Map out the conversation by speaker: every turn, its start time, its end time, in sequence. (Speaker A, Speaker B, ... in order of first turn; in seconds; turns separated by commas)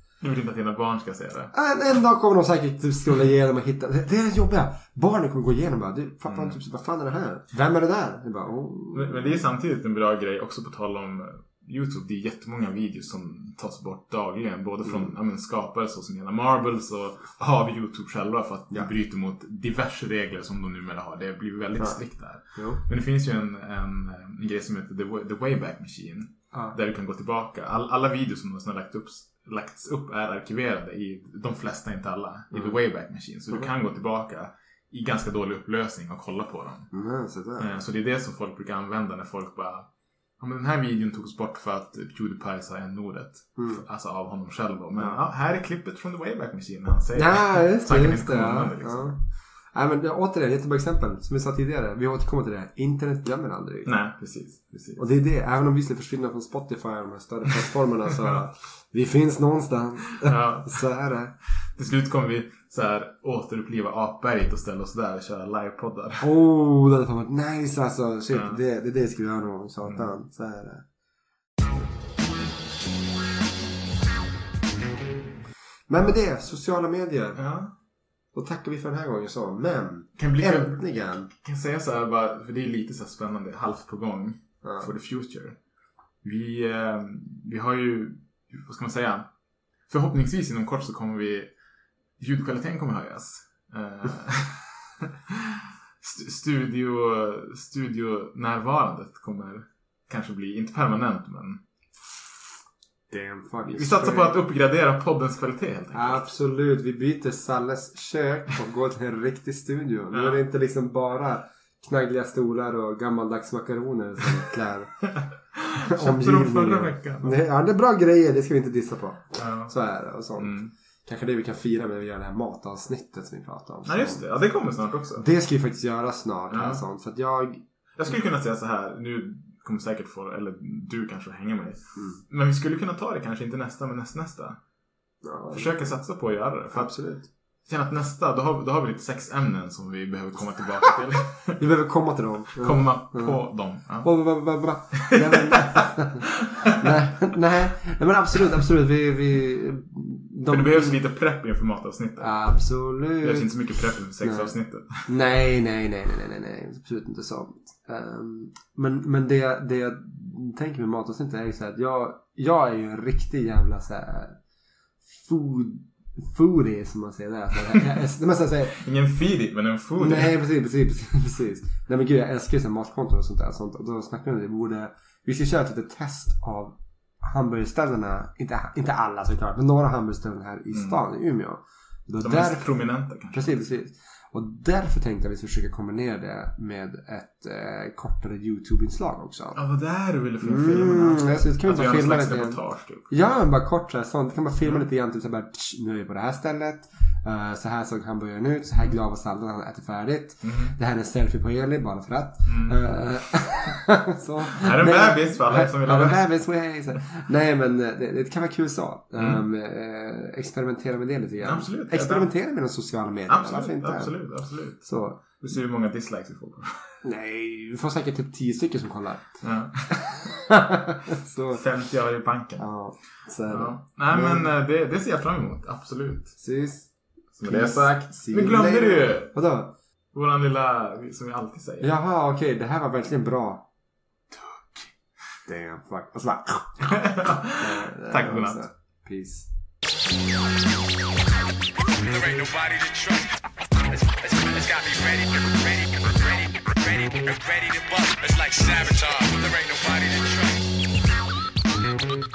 Speaker A: 0.2-1.5, Speaker B: 1.5-9.4, Speaker A: 6.3-6.6, Speaker A: 8.9-36.9, Speaker B: 14.8-15.1, Speaker B: 21.8-22.8, Speaker B: 36.9-37.8, Speaker A: 37.6-49.2, Speaker B: 43.6-43.8, Speaker B: 47.1-54.0, Speaker A: 53.9-55.0, Speaker B: 55.0-61.4, Speaker A: 60.2-60.9, Speaker A: 61.6-66.3, Speaker B: 66.2-70.8, Speaker A: 68.3-68.6, Speaker A: 69.9-70.1, Speaker B: 75.9-77.4, Speaker A: 77.3-77.7, Speaker B: 78.3-81.3, Speaker A: 80.2-85.6, Speaker B: 84.6-84.9, Speaker A: 86.2-89.3, Speaker A: 89.9-91.5, Speaker A: 92.2-94.8, Speaker A: 96.0-101.6, Speaker B: 103.1-104.3, Speaker A: 103.7-106.3, Speaker B: 105.9-115.1, Speaker A: 110.1-110.4, Speaker A: 115.2-117.4, Speaker B: 115.9-124.3, Speaker A: 119.3-119.7, Speaker A: 120.4-120.7, Speaker A: 123.9-125.2, Speaker B: 125.2-127.6, Speaker A: 126.5-126.8, Speaker A: 128.0-134.6, Speaker B: 132.0-132.2, Speaker B: 135.2-135.8, Speaker A: 135.5-141.6, Speaker B: 136.7-137.3, Speaker B: 141.6-151.0, Speaker A: 142.6-145.6, Speaker A: 146.6-146.9, Speaker A: 150.5-152.5, Speaker B: 152.2-153.5, Speaker A: 153.0-155.1, Speaker B: 154.2-164.4, Speaker B: 165.0-168.8, Speaker A: 168.7-170.4, Speaker B: 170.0-189.6, Speaker A: 180.7-181.0, Speaker A: 182.2-183.5, Speaker A: 189.6-193.1, Speaker B: 190.4-214.2, Speaker A: 200.4-200.8, Speaker A: 202.5-203.1, Speaker A: 204.5-206.2, Speaker A: 209.2-209.4, Speaker A: 211.4-212.3, Speaker A: 213.3-217.0, Speaker B: 214.8-215.2, Speaker B: 217.0-219.4, Speaker A: 219.4-220.2, Speaker B: 220.0-221.6, Speaker A: 221.5-222.7, Speaker B: 222.6-224.5, Speaker A: 223.5-226.4, Speaker B: 226.4-226.9, Speaker A: 227.4-229.3, Speaker B: 227.4-229.7, Speaker A: 230.1-231.9, Speaker B: 231.8-233.7, Speaker A: 234.3-234.9, Speaker B: 235.5-239.5, Speaker A: 236.9-238.6, Speaker C: 241.9-250.7